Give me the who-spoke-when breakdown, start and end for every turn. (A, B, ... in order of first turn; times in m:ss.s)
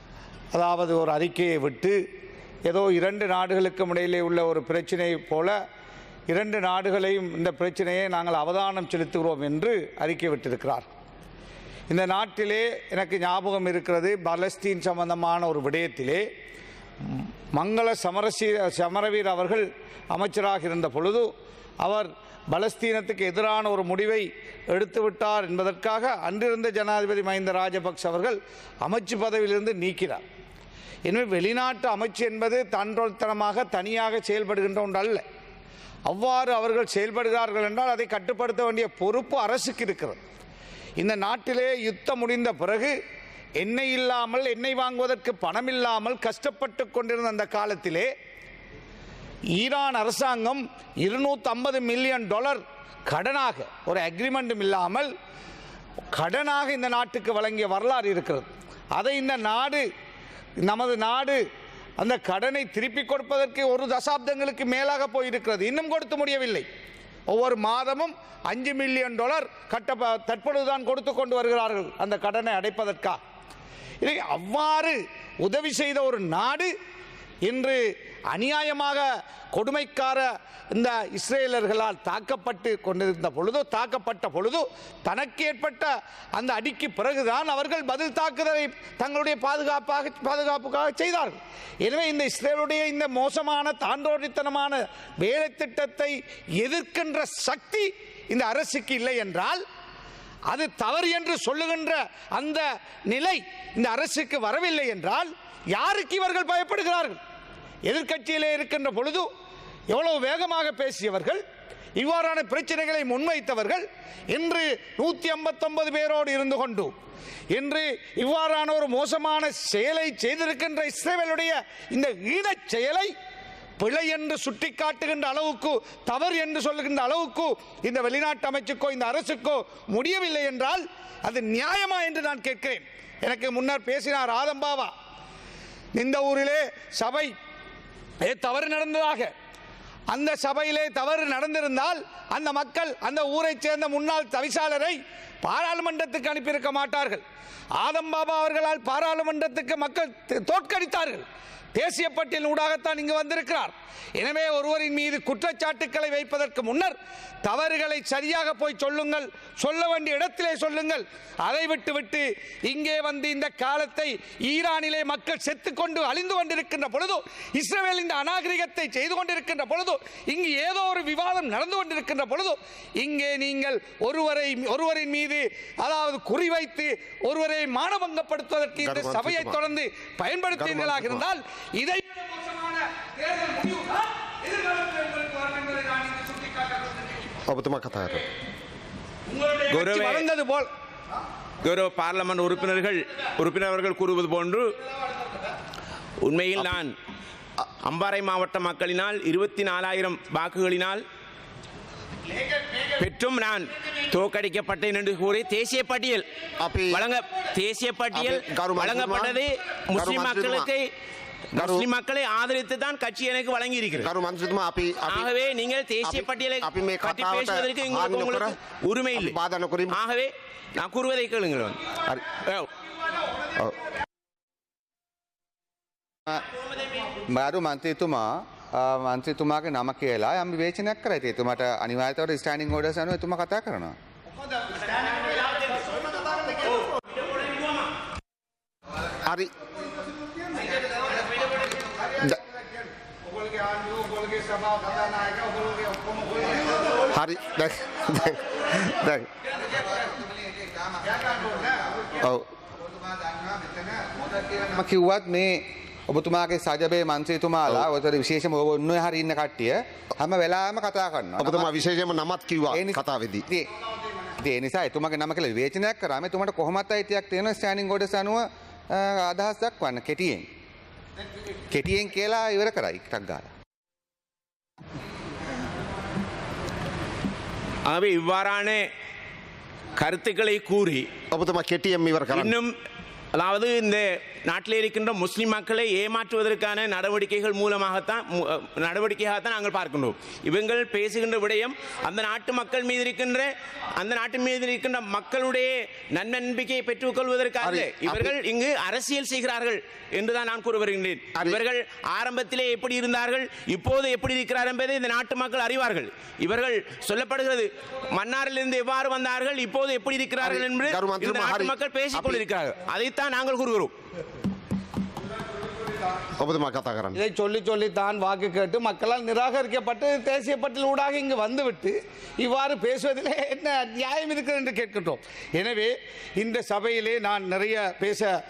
0:00.5-0:02.0 A
0:02.6-0:05.6 A
0:06.3-0:10.8 A
0:11.9-0:16.2 A
0:17.1-0:21.3 A
0:21.8-0:30.2 A
0:31.0-0:35.2 A
0:36.1-0:40.2 A
0:41.0-0:42.9 A
0:43.6-0:48.1 A
0:49.6-0:55.1 A
0:56.1-0:59.8 A
1:00.6-1:01.4 A
1:02.0-1:06.6 A
1:07.3-1:13.2 A
1:14.0-1:16.7 A
1:17.4-1:39.6 A
1:40.5-1:47.2 A
1:47.9-1:49.3 A
1:49.9-1:51.4 A
1:52.0-1:56.9 A
1:57.5-2:03.1 A
2:03.8-2:14.9 A
2:16.0-2:17.3 A
2:18.2-2:19.3 A
2:20.1-2:27.2 A
2:27.8-3:07.3 A
2:58.8-2:59.6 B
3:00.5-3:01.2 B
3:07.4-3:08.2 B
3:09.3-3:10.7 A
3:09.7-3:10.2 C
3:11.6-3:14.7 C
3:16.2-3:16.9 C
3:17.8-3:21.0 C
3:23.0-3:26.2 C
3:26.6-3:27.0 B
3:26.9-3:30.8 C
3:28.1-3:29.4 B
3:30.0-3:30.7 B
3:31.5-3:34.1 C
3:31.6-3:31.8 B
3:34.0-3:35.3 B
3:35.1-3:42.7 C
3:36.0-3:38.5 B
3:39.1-3:40.0 B
3:43.6-3:43.9 B
3:47.2-3:54.0 D
3:54.4-3:56.8 A
3:55.3-3:55.6 C
3:56.8-3:57.9 C
3:59.2-3:59.5 B
4:00.6-4:07.0 A
4:07.1-4:09.3 B
4:09.6-4:12.2 D
4:11.1-4:11.8 A
4:12.2-4:12.5 B
4:12.8-4:21.8 D
4:21.4-4:23.4 B
4:22.7-4:23.7 D
4:24.4-4:30.5 D
4:31.7-4:33.5 D
4:37.9-4:38.8 C
4:40.0-4:41.1 C
4:41.3-4:42.5 B
4:42.3-4:42.7 C
4:43.3-5:13.9 C
4:57.6-4:58.3 B
5:10.4-5:12.4 B
5:16.4-5:17.2 B
5:17.1-5:28.3 A